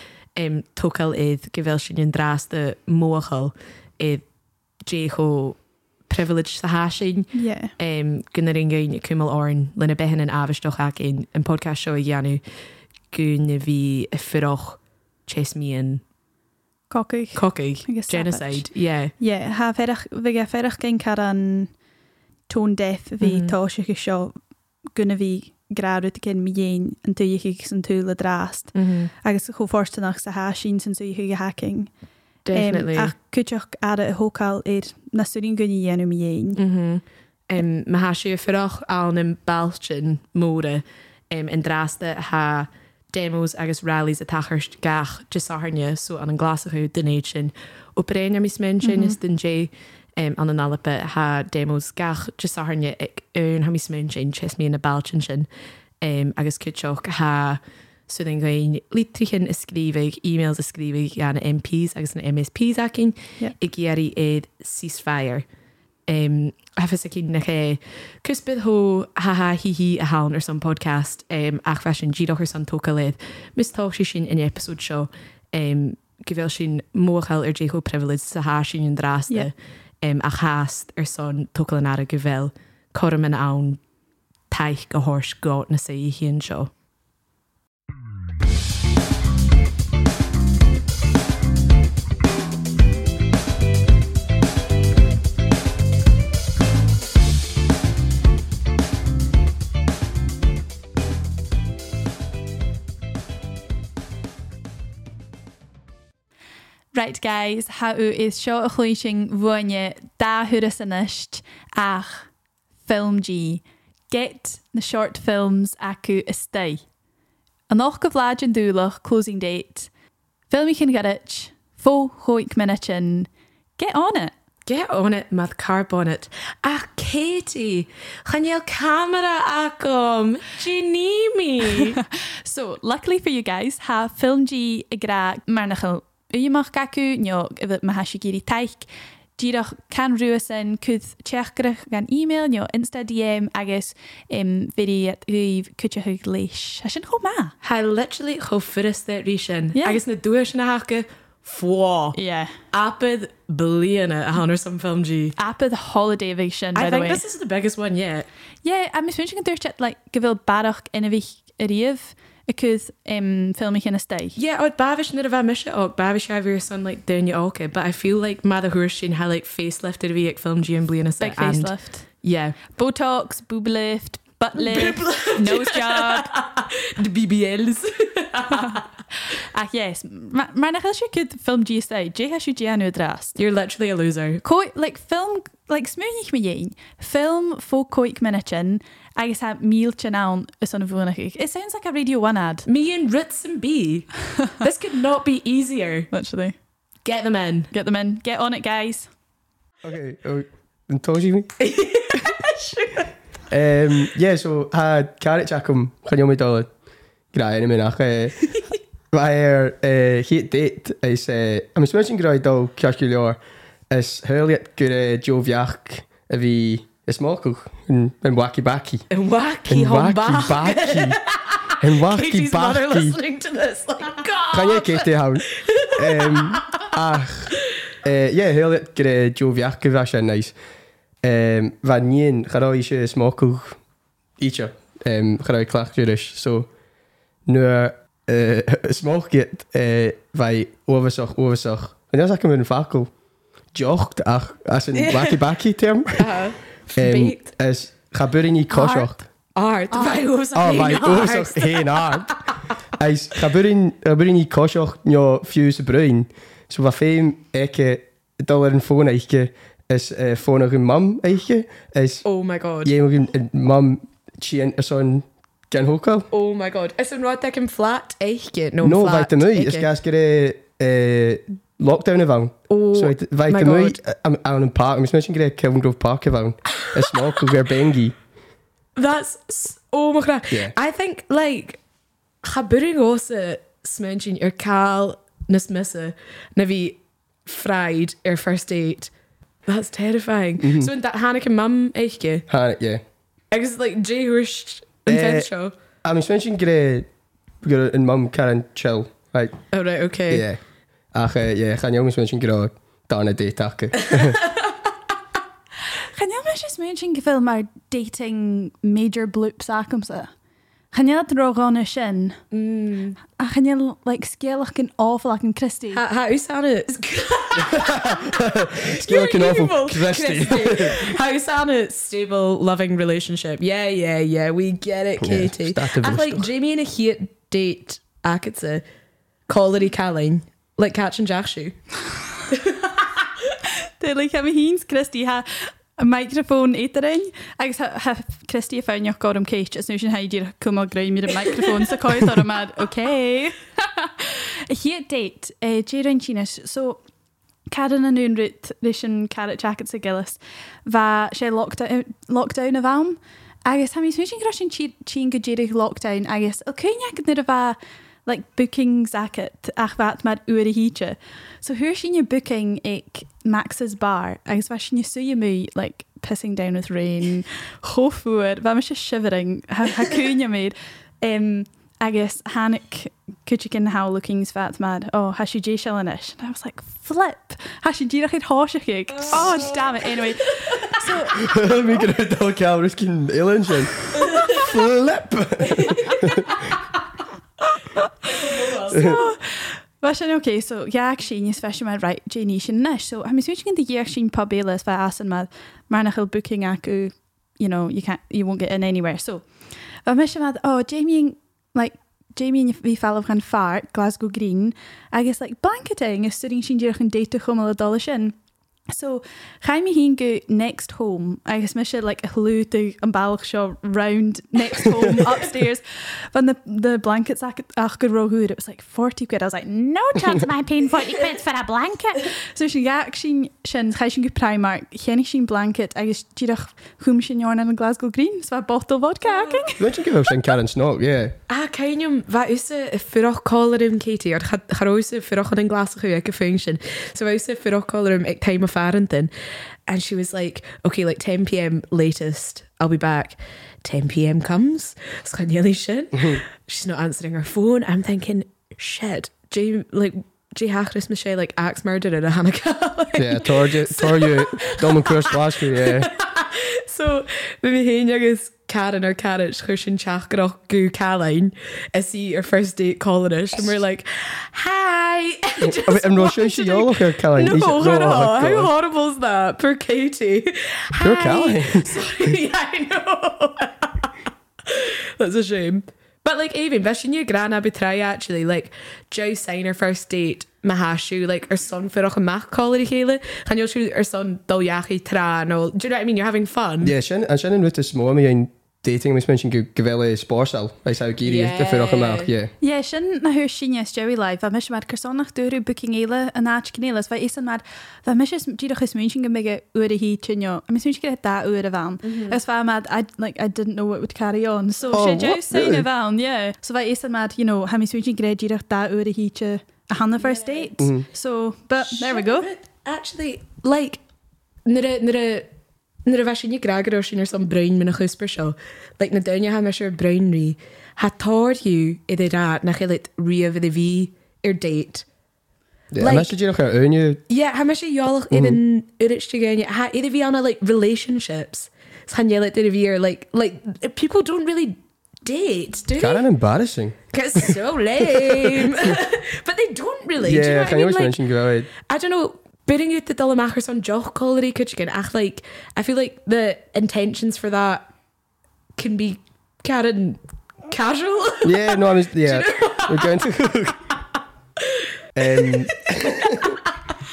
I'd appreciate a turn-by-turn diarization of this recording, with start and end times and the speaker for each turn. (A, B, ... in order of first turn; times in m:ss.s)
0:00.4-0:04.2 A
0:04.8-0:12.4 A
0:07.3-0:07.7 B
0:13.1-0:16.0 A
0:16.9-0:18.7 B
0:17.3-0:19.1 A
0:19.2-0:21.7 B
0:22.5-0:24.3 B
0:23.2-0:23.5 A
0:24.9-0:31.9 B
0:28.7-0:29.1 A
0:32.4-0:33.1 A
0:32.5-0:36.6 B
0:36.6-0:55.5 A
0:48.8-0:49.2 B
0:56.0-1:05.4 A
1:06.1-1:23.8 A
1:24.5-1:26.7 A
1:46.9-1:52.3 B
1:52.9-1:56.8 B
1:57.7-1:59.9 B
2:00.5-2:04.3 B
2:04.6-2:12.0 A
2:11.8-2:27.5 B
2:27.6-2:32.2 A
2:29.7-2:30.0 B
2:32.1-2:32.5 B
2:32.7-2:35.4 A
2:35.4-2:37.2 B
2:36.7-2:38.3 A
2:38.6-2:44.4 B
2:44.3-2:52.6 A
2:51.2-2:52.1 B
2:52.7-2:56.3 B
2:54.5-2:58.9 A
2:58.5-3:03.4 B
3:03.4-3:04.4 A
3:04.4-3:12.6 B
3:12.6-3:16.1 A
3:16.1-3:16.6 B
3:17.0-3:17.7 A
3:17.7-3:19.1 B
3:19.8-3:21.5 C
3:21.6-3:23.1 A
3:23.5-3:26.7 C
3:27.3-3:28.4 C
3:29.1-3:33.4 C
3:33.9-3:39.0 C
3:39.1-3:46.9 A
3:39.7-3:41.2 C
3:41.8-3:43.2 C
3:44.5-3:50.5 C
3:51.2-3:53.8 C
3:54.4-3:56.7 C
3:57.4-4:03.1 C
4:03.7-4:06.4 C
4:04.9-4:05.4 A
4:06.2-4:07.4 A
4:06.9-4:09.2 C
4:08.7-4:09.1 B
4:09.5-4:12.7 A
4:09.9-4:10.2 B
4:10.5-4:12.3 C
4:13.0-4:22.2 C
4:22.2-4:22.9 A
4:22.8-4:26.3 C
4:26.3-4:29.9 A
4:28.8-4:38.2 C
4:32.7-4:34.0 A
4:39.0-4:41.8 A
4:42.4-4:49.1 A
4:49.7-4:52.4 A
4:50.6-4:50.9 C
4:52.5-4:53.0 C
4:53.5-4:55.7 A
4:55.1-4:55.5 C
4:56.0-4:57.1 C
4:57.6-4:59.6 C
4:59.7-5:00.4 A
5:00.3-5:00.6 C
5:01.1-5:04.4 C
5:04.0-5:04.7 A
5:06.1-5:10.3 B
5:10.9-5:12.4 B
5:12.5-5:13.2 A
5:13.2-5:16.0 B
5:15.9-5:28.8 A
5:17.6-5:21.2 C
5:25.2-5:26.5 C
5:29.5-5:31.8 A
5:32.5-5:33.2 A
5:33.9-5:47.0 B
5:47.7-6:21.5 B
6:19.1-6:21.0 A
6:21.4-6:26.6 C
6:24.1-6:24.7 A
6:25.6-6:26.7 A
6:28.0-6:39.4 B
6:28.2-6:29.2 A
6:40.0-6:48.3 B
6:48.9-7:09.8 B
7:09.2-7:09.7 A
7:09.8-7:11.3 C
7:11.5-7:19.3 A
7:19.9-7:54.1 A
7:33.2-7:36.1 C
7:45.6-7:48.7 C
7:51.0-7:52.1 C
7:54.6-8:06.9 A
8:06.8-8:12.5 C
8:11.2-8:12.3 A
8:12.6-8:32.5 B
8:22.0-8:22.4 A
8:24.9-8:25.8 C
8:30.2-8:30.7 A
8:30.8-8:31.0 C
8:31.8-8:34.0 A
8:34.6-8:35.5 A
8:36.0-8:45.0 A
8:45.9-8:47.2 C
8:46.0-8:46.3 A
8:47.3-8:56.3 A
8:48.3-8:48.6 C
8:56.0-8:59.0 C
8:57.1-9:01.2 A
9:00.2-9:01.7 C
9:01.7-9:07.9 A
9:08.8-9:13.2 A
9:11.4-9:13.8 C
9:14.6-9:16.9 A
9:15.1-9:16.6 C